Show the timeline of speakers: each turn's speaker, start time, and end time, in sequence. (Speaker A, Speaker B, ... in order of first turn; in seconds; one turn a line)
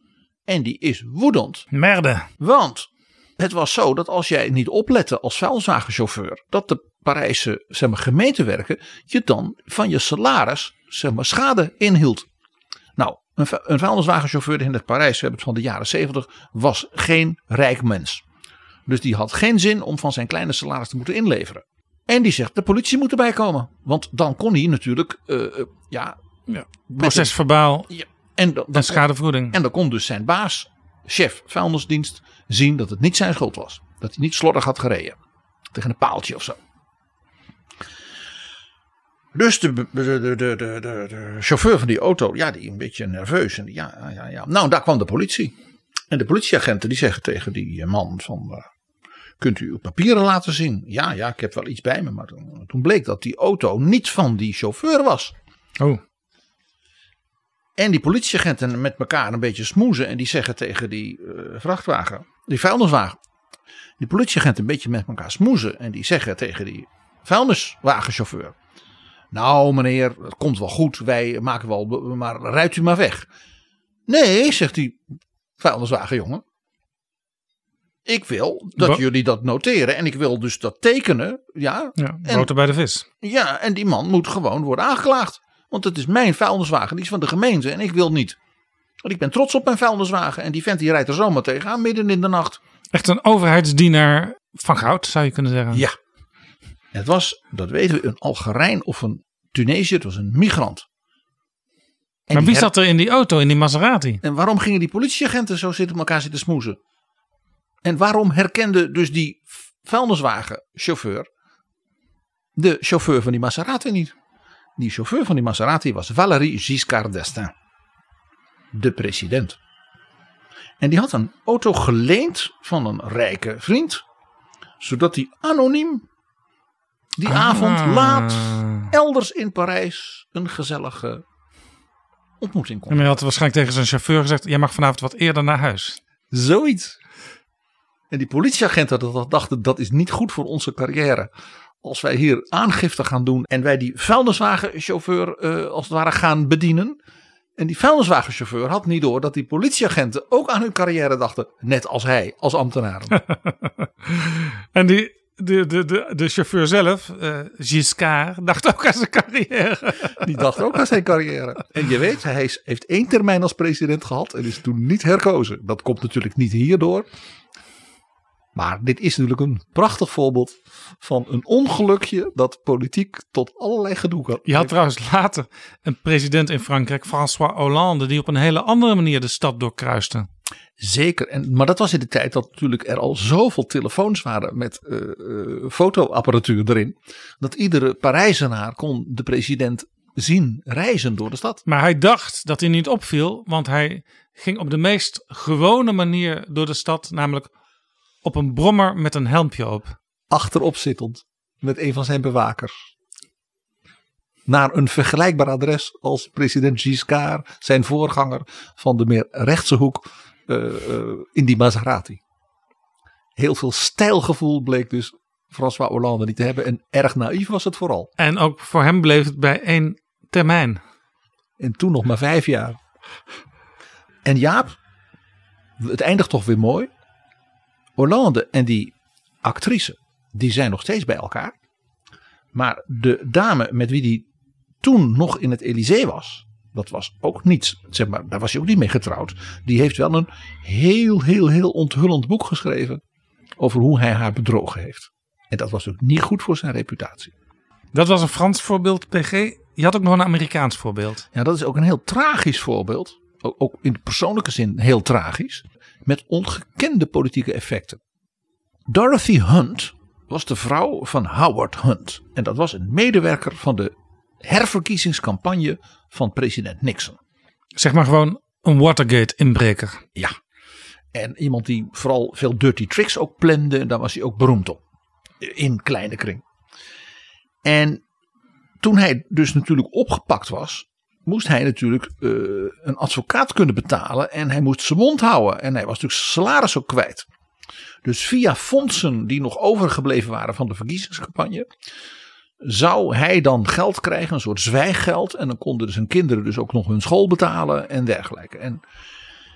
Speaker A: 0.5-1.7
Speaker B: 1.7-2.3
Speaker A: 2.4-12.3
Speaker A: 13.0-18.2
Speaker A: 18.9-26.2
Speaker B: 26.5-27.9
Speaker A: 26.9-27.4
Speaker A: 27.9-35.2
Speaker B: 28.7-29.6
Speaker A: 35.7-36.6
Speaker A: 39.3-45.5
Speaker A: 46.1-48.7
Speaker A: 49.4-55.3
Speaker A: 57.8-63.2
Speaker A: 64.0-68.5
Speaker A: 69.3-73.3
Speaker A: 74.1-75.0
Speaker A: 75.6-76.4
Speaker A: 78.1-82.5
Speaker B: 82.0-83.0
Speaker A: 83.2-88.4
Speaker A: 89.0-92.6
Speaker B: 92.9-95.8
Speaker A: 96.9-100.8
Speaker A: 102.3-102.7
Speaker B: 102.3-104.2
Speaker A: 104.2-106.8
Speaker A: 107.8-111.3
Speaker A: 112.6-114.1
Speaker A: 114.8-117.5
Speaker A: 118.7-119.6
Speaker A: 120.8-124.0
Speaker A: 124.8-126.0
Speaker A: 127.2-131.2
Speaker B: 127.3-128.9
Speaker A: 132.4-133.2
Speaker B: 132.9-136.0
Speaker A: 136.3-137.0
Speaker A: 138.1-141.3
Speaker A: 141.8-147.0
Speaker A: 147.6-153.2
Speaker B: 153.3-160.3
Speaker A: 160.2-167.1
Speaker A: 168.6-174.7
Speaker B: 174.5-180.3
Speaker A: 180.8-191.6
Speaker B: 191.7-197.5
Speaker B: 198.2-200.0
Speaker A: 200.3-202.7
Speaker A: 204.5-212.2
Speaker A: 213.4-218.1
Speaker B: 218.2-220.8
Speaker A: 221.6-222.8
Speaker A: 224.2-224.7
Speaker A: 225.8-226.9
Speaker A: 228.0-231.5
Speaker A: 232.5-234.3
Speaker A: 234.8-243.0
Speaker A: 243.6-247.3
Speaker B: 247.9-251.3
Speaker A: 251.3-258.0
Speaker A: 258.9-263.9
Speaker A: 264.4-267.2
Speaker B: 267.8-270.0
Speaker A: 271.1-274.8
Speaker A: 275.4-276.4
Speaker A: 277.6-278.0
Speaker A: 278.8-287.3
Speaker A: 288.1-291.7
Speaker A: 292.6-298.8